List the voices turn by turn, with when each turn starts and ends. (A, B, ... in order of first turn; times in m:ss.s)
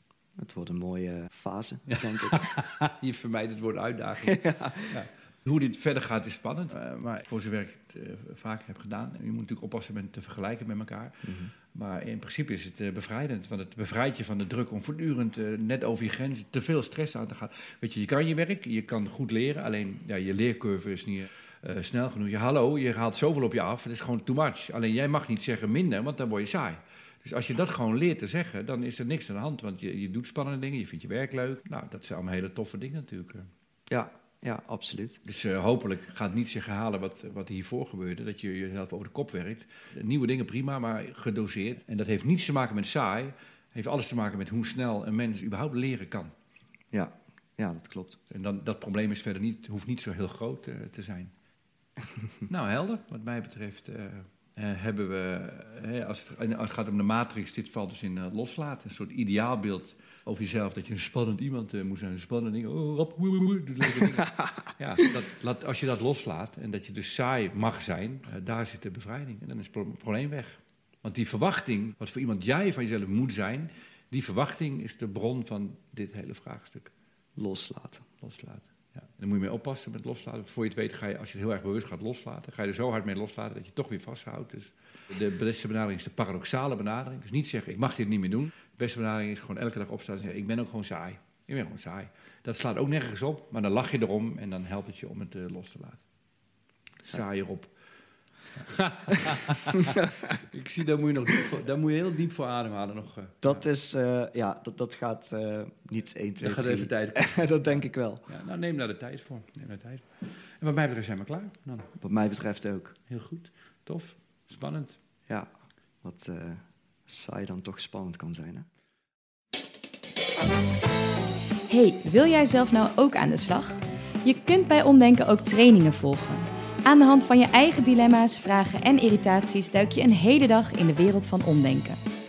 0:00.4-0:02.6 A
0:02.0-0:33.5 B
0:04.2-0:05.0 A
0:11.2-0:11.5 A
0:33.9-0:35.2 A
0:35.2-0:46.3 B
0:46.9-0:48.2 A
0:48.3-0:51.3 B
0:52.5-1:16.9 B
1:17.4-1:18.0 A
1:18.2-1:36.0 B
1:37.0-1:37.7 B
1:38.5-1:43.6 B
1:39.9-1:40.2 A
1:43.4-1:48.3 A
1:46.4-1:51.9 B
1:52.0-1:53.0 A
1:53.1-1:55.0 B
1:56.0-1:58.7 A
2:01.7-2:12.0 C